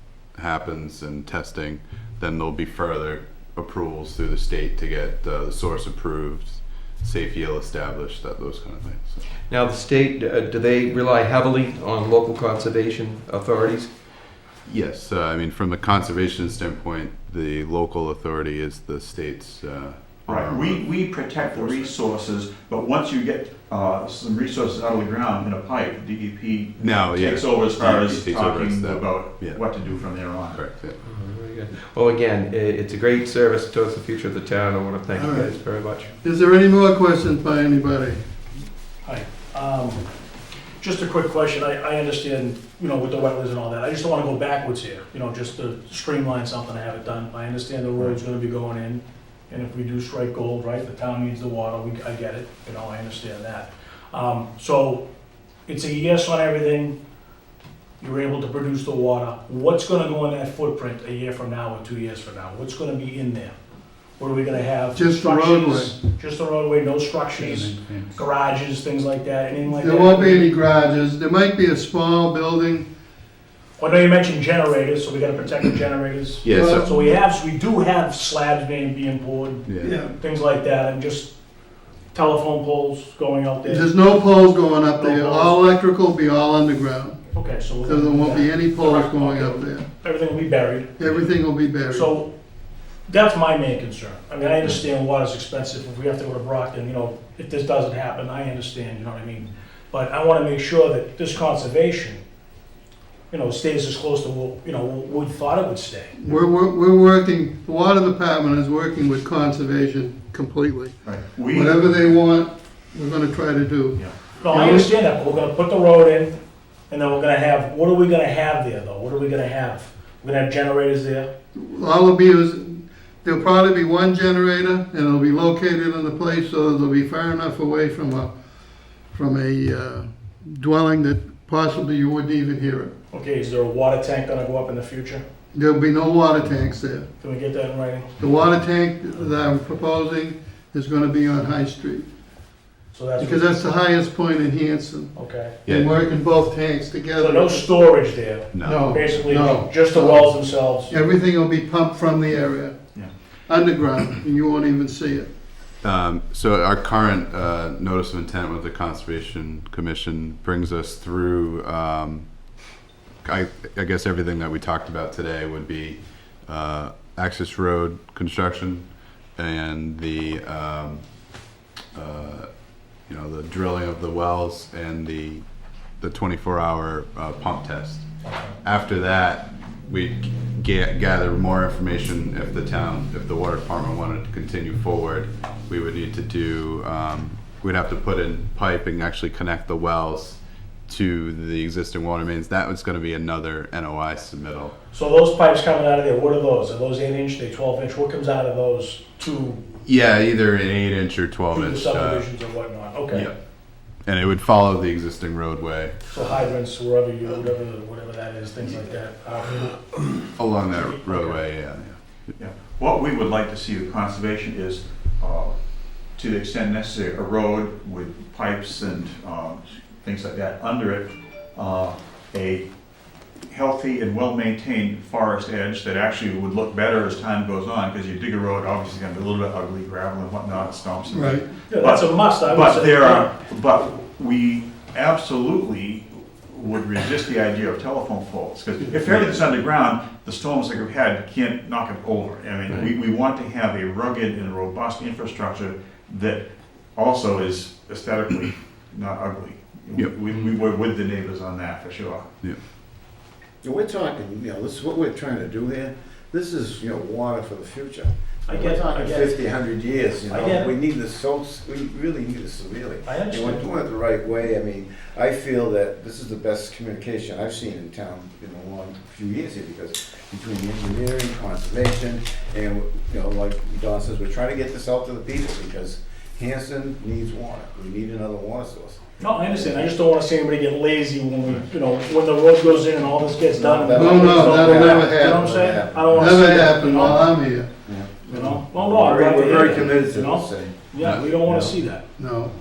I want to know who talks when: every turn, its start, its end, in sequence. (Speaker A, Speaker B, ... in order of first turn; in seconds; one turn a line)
Speaker A: 0.3-9.3
Speaker B: 9.5-13.9
Speaker A: 14.7-20.9
Speaker C: 20.3-30.7
Speaker A: 21.6-21.9
Speaker A: 26.8-29.6
Speaker A: 30.5-31.0
Speaker B: 31.0-36.1
Speaker D: 35.2-35.5
Speaker D: 36.2-38.2
Speaker E: 39.0-40.1
Speaker E: 40.8-55.1
Speaker E: 55.7-57.0
Speaker E: 58.0-63.5
Speaker E: 64.2-70.6
Speaker D: 64.9-66.0
Speaker D: 69.6-72.9
Speaker E: 73.8-81.3
Speaker A: 76.4-76.9
Speaker D: 76.5-77.0
Speaker A: 79.7-80.0
Speaker D: 79.8-80.1
Speaker E: 82.1-83.9
Speaker D: 83.7-87.2
Speaker E: 85.0-85.6
Speaker E: 87.3-90.9
Speaker D: 87.8-89.9
Speaker D: 91.0-92.1
Speaker E: 91.9-92.3
Speaker E: 93.1-102.2
Speaker E: 103.3-106.2
Speaker D: 106.2-111.0
Speaker C: 111.0-111.9
Speaker D: 111.5-114.9
Speaker C: 114.0-114.3
Speaker E: 114.4-121.3
Speaker D: 121.5-128.3
Speaker D: 129.1-132.9
Speaker E: 133.1-135.2
Speaker D: 135.5-137.1
Speaker E: 137.2-138.1
Speaker D: 138.2-142.1
Speaker E: 142.9-143.7
Speaker D: 143.2-147.7
Speaker E: 145.2-145.6
Speaker A: 145.7-145.9
Speaker E: 147.2-150.9
Speaker A: 148.5-148.9
Speaker D: 148.6-150.3
Speaker D: 150.9-152.8
Speaker D: 153.5-155.3
Speaker A: 155.8-162.3
Speaker A: 163.2-171.0
Speaker A: 171.9-172.5
Speaker A: 173.1-175.4
Speaker A: 176.0-178.1
Speaker A: 178.6-194.8
Speaker E: 194.9-199.7
Speaker A: 199.8-202.3
Speaker E: 201.5-203.3
Speaker A: 204.0-206.0
Speaker E: 206.1-210.0
Speaker A: 210.4-212.0
Speaker E: 210.8-211.4
Speaker C: 212.4-215.6
Speaker C: 216.1-222.7
Speaker C: 223.5-252.3
Speaker D: 231.1-231.5
Speaker E: 231.7-233.4
Speaker F: 253.6-279.9
Speaker E: 258.5-259.5
Speaker E: 260.3-260.7
Speaker E: 263.0-263.7
Speaker E: 279.2-287.3
Speaker F: 283.5-286.4
Speaker D: 283.9-285.5
Speaker D: 286.1-287.7
Speaker F: 287.9-290.8
Speaker E: 288.3-292.1
Speaker D: 288.3-288.6
Speaker F: 291.4-291.7
Speaker D: 292.2-292.5